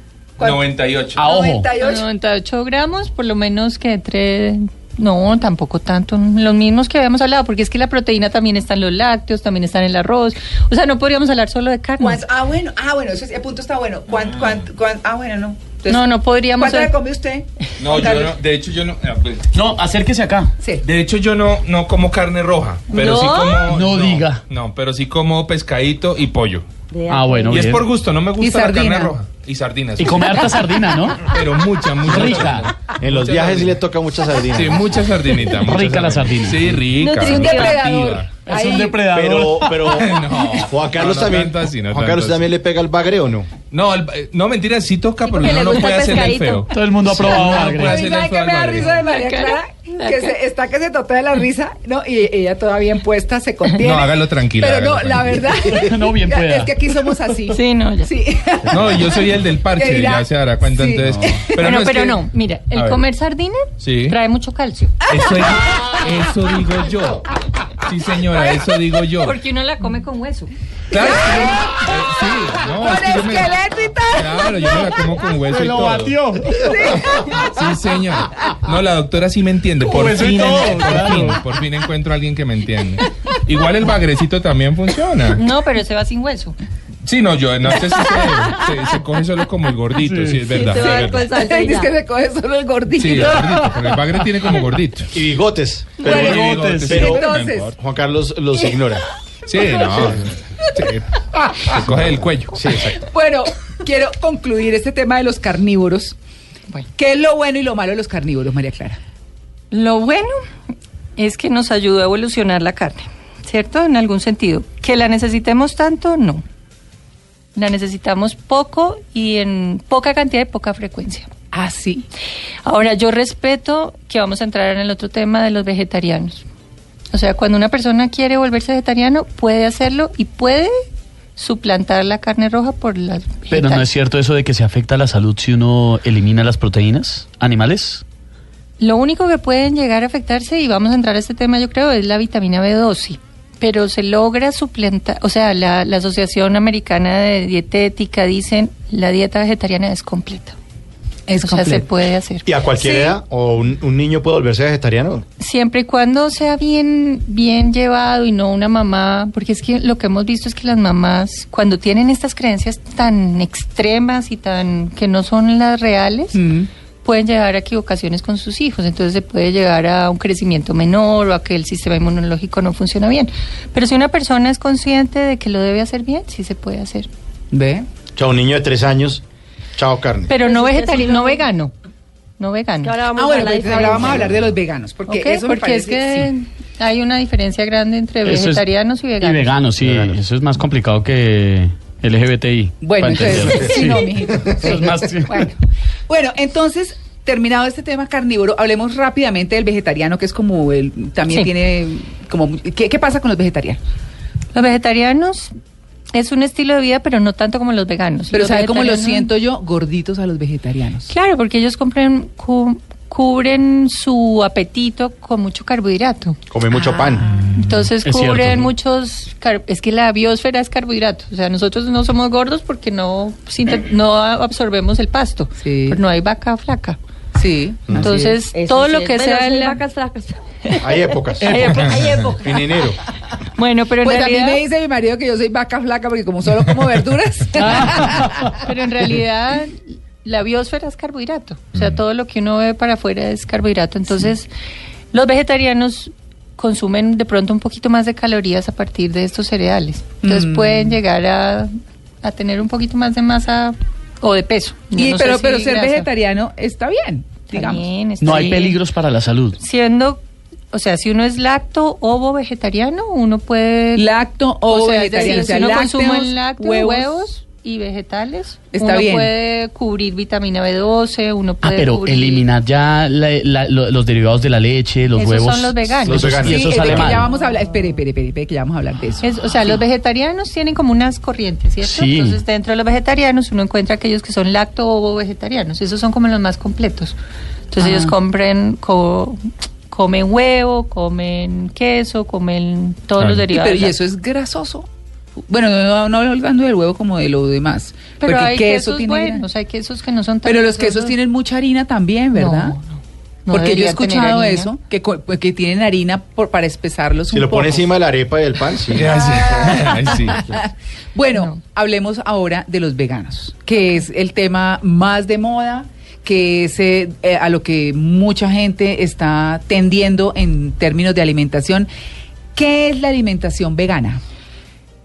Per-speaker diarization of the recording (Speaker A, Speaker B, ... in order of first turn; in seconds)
Speaker A: 0.4-2.0, 12.0-18.4, 20.6-20.9, 28.4-29.2, 37.2-39.1, 47.4-61.8, 65.1-65.5, 70.9-72.0, 72.8-75.2, 76.6-77.5, 90.7-93.8, 96.1-97.7, 102.8-106.1, 107.0-109.0, 121.5-122.1, 151.3-151.9, 166.3-166.7, 177.5-177.9, 183.1-186.3, 192.8-203.8, 208.3-211.1, 225.6-226.0, 227.3-228.4, 234.0-238.5, 250.2-251.0, 254.9-257.9, 263.9-267.3, 268.7-269.3, 276.4-279.8, 287.8-288.1, 293.5-294.9, 295.5-299.4, 300.4-302.8, 303.5-307.9, 309.1-321.9, 322.6-324.2
Speaker B: 0.4-1.3, 17.8-19.5, 20.8-26.6, 27.5-30.4, 31.2-33.8, 34.5-38.4, 39.9-42.5, 43.7-49.0, 53.8-55.5, 58.7-63.0, 63.8-64.2, 65.1-67.2, 67.8-69.4, 70.9-76.2, 76.8-85.4, 87.0-91.2, 93.0-95.1, 96.0-97.7, 99.5-101.0, 101.7-102.8, 293.2-293.5, 308.9-310.5
Speaker C: 1.2-1.7, 19.5-20.5, 23.7-24.4, 27.1-27.9, 30.0-31.4, 32.0-32.7, 35.6-36.8, 38.4-39.8, 46.7-48.1, 55.7-56.8, 75.5-76.8, 79.8-81.4, 90.0-90.5, 96.0-97.0, 133.5-138.0, 188.2-188.6, 189.2-195.5, 218.0-218.7, 231.4-231.8, 237.8-238.5, 258.2-259.6, 271.6-277.3, 281.8-282.4
Speaker D: 1.8-12.2, 15.9-16.9, 48.9-50.3, 57.5-58.1, 61.6-64.9, 69.2-70.5, 85.3-86.6, 109.7-110.4, 111.2-116.4, 117.5-121.3, 122.6-126.4, 127.1-130.8, 131.4-133.9, 138.8-150.6, 151.4-153.1, 155.4-166.4, 167.0-177.1, 180.3-181.7, 182.4-183.0, 185.1-189.5, 204.5-205.5, 206.1-209.3, 211.1-227.0, 228.0-229.8, 230.6-232.4, 233.6-234.6, 238.5-244.5, 245.1-251.7, 252.2-256.1, 257.5-258.8, 259.6-260.2, 260.7-264.1, 264.7-272.4, 275.1-276.6, 279.2-287.1, 287.7-293.9, 298.2-301.1, 302.4-304.7, 311.4-311.6
Speaker E: 22.9-23.7, 26.9-27.7, 37.0-37.9, 45.2-46.6, 90.5-91.9, 180.4-181.4, 182.8-184.3, 228.5-230.4, 231.8-232.6
Speaker F: 33.0-35.0, 39.1-43.5, 95.1-99.1, 100.0-100.3, 101.7-103.0, 152.4-155.2, 178.1-179.2, 179.8-180.3, 183.7-184.5, 189.8-190.2, 193.4-193.7, 216.5-217.3, 230.8-233.0, 276.1-277.2, 307.3-309.4